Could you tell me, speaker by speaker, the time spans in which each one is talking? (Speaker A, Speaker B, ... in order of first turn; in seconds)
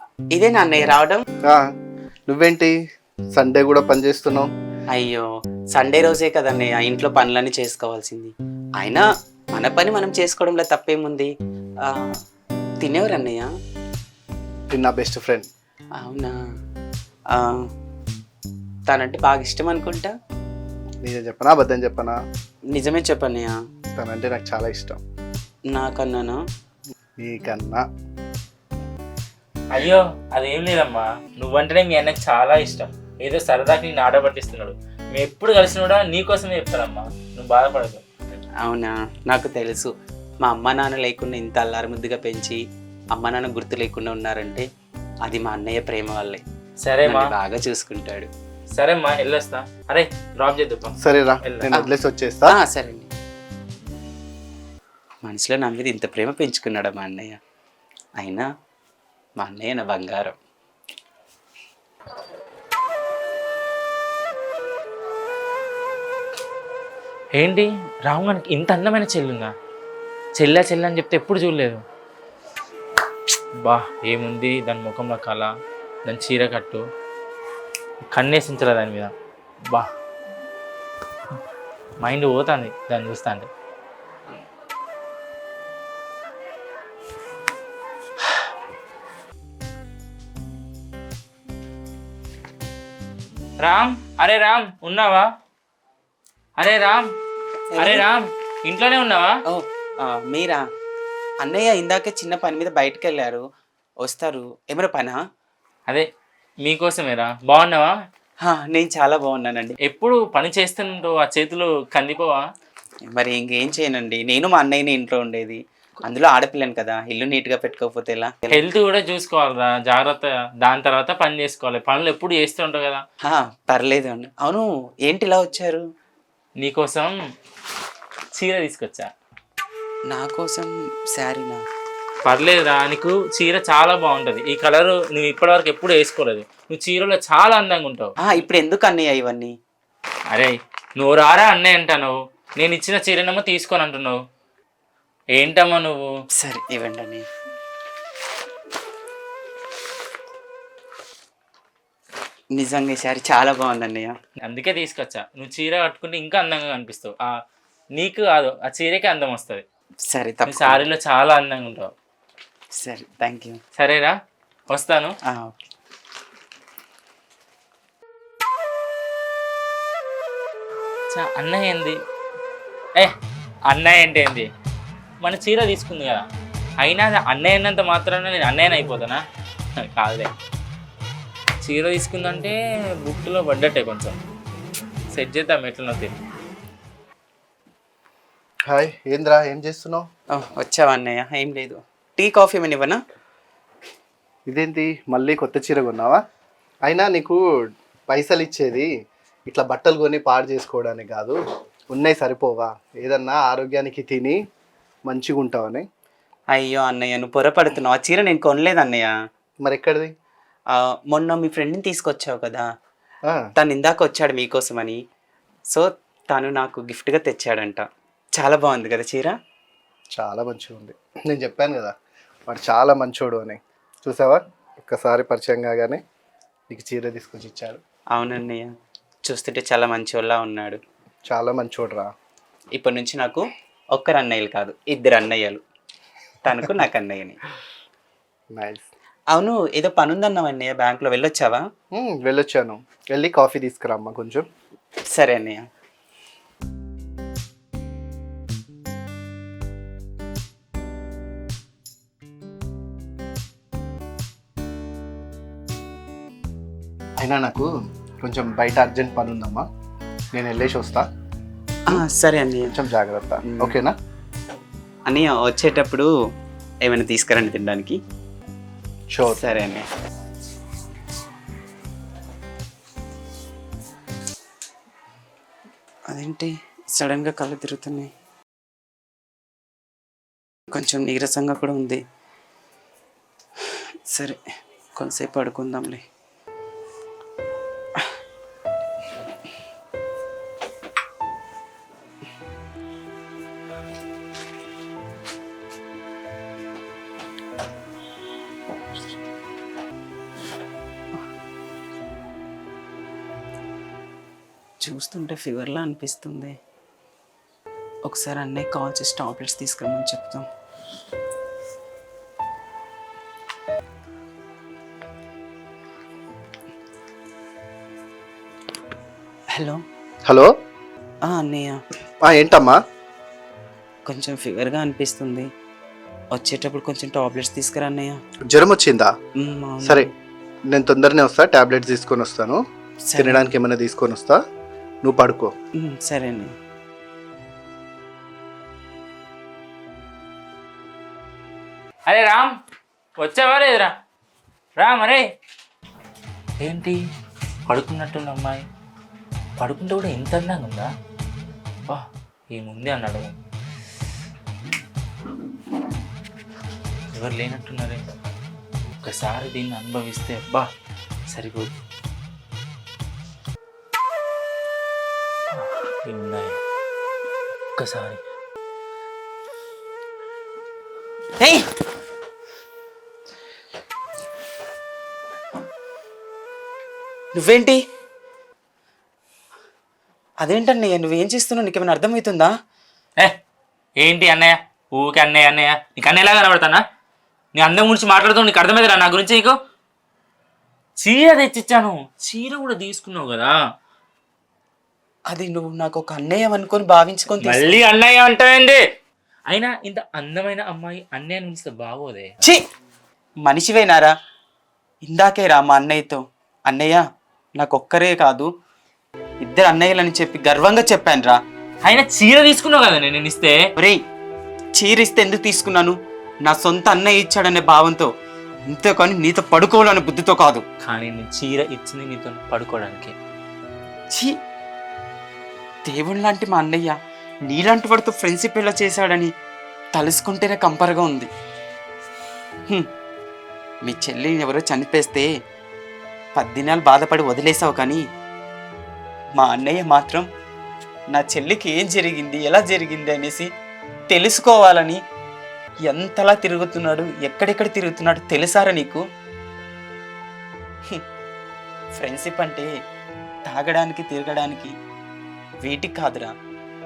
Speaker A: 0.3-1.2, 4.9-11.3, 11.8-12.1, 12.8-13.5, 16.0-16.3, 17.3-17.6, 18.9-20.1, 22.7-23.6, 25.7-26.4, 38.6-39.9, 40.4-42.6, 43.1-44.6, 45.2-46.4, 47.0-48.3, 52.5-53.1, 55.2-57.4, 58.2-58.5, 59.4-60.3, 97.7-98.1, 99.5-100.6, 101.4-103.4, 104.0-105.2, 108.4-109.8, 113.1-118.7, 123.2-125.8, 130.1-131.6, 138.2-139.5, 146.4-147.3, 152.5-154.1, 160.1-160.9, 162.8-163.6, 165.3-165.6, 190.3-193.0, 206.5-209.1, 210.7-212.7, 213.6-215.0, 215.7-217.8, 218.4-219.3, 228.2-228.7, 229.2-230.8, 232.8-235.6, 236.4-237.4, 239.3-241.6, 245.1-245.7, 261.9-262.8, 263.5-263.8, 265.1-266.1, 266.8-268.0, 269.3-269.8, 276.1-278.1, 280.7-282.0, 284.1-284.4, 284.9-286.0, 304.8-306.6, 308.1-310.5, 319.5-319.8, 321.3-321.8, 324.1-325.5, 326.3-328.2, 329.4-330.1, 333.1-333.5, 335.8-336.5, 371.4-371.6, 377.3-377.8, 380.4-382.5, 395.3-397.8, 403.4-404.1, 405.0-407.0, 407.6-408.5, 409.4-411.4, 414.7-418.1, 418.7-420.6, 425.9-426.9, 427.5-429.3, 429.9-431.3, 433.8-435.3, 436.4-438.0, 439.4-440.3, 441.1-443.5, 444.1-445.0, 445.9-449.0, 451.9-452.7, 453.4-454.7, 455.6-456.3
Speaker B: 2.3-2.7, 3.4-4.5, 14.7-15.5, 21.0-22.2, 23.9-25.0, 27.2-27.8, 51.0-52.6, 188.7-190.0, 194.5-196.2, 196.9-197.4, 198.1-198.9, 199.5-201.4, 201.9-204.4, 205.1-205.8, 209.6-210.1, 220.2-221.9, 222.5-226.0, 226.7-227.8, 231.3-232.1, 238.5-238.9, 241.9-244.4, 257.2-257.7, 258.2-259.7, 260.3-261.1, 262.7-263.9, 269.1-269.4, 322.2-322.8, 328.5-329.1, 329.8-330.1, 330.7-332.6, 333.2-334.4, 335.0-335.5
Speaker C: 29.7-38.0, 46.8-47.3, 48.8-51.7, 67.4-69.5, 70.4-71.8, 73.6-75.5, 76.0-76.8, 78.1-79.1, 82.0-83.5, 93.6-95.3, 96.6-97.0, 97.8-99.3, 106.6-107.9, 109.8-112.4, 118.5-123.0, 126.6-127.1, 128.3-129.1, 132.2-138.1, 140.3-144.2, 145.3-146.1, 154.4-157.3, 157.9-159.6, 160.5-161.9, 163.8-164.1, 164.7-165.1, 171.1-171.9, 173.7-174.5, 175.2-176.2, 176.8-179.2, 179.8-180.3, 181.6-182.5, 183.1-184.2, 185.1-186.2, 342.1-342.5, 343.2-343.9, 344.8-345.2, 346.6-347.0, 347.7-348.6, 349.6-350.9, 351.9-353.3, 357.1-358.0, 359.0-360.7, 361.3-361.7, 365.5-366.6, 367.8-368.2, 384.0-386.8, 387.6-389.6, 391.0-393.5, 397.4-398.8, 399.5-402.4, 411.8-413.6, 420.8-423.1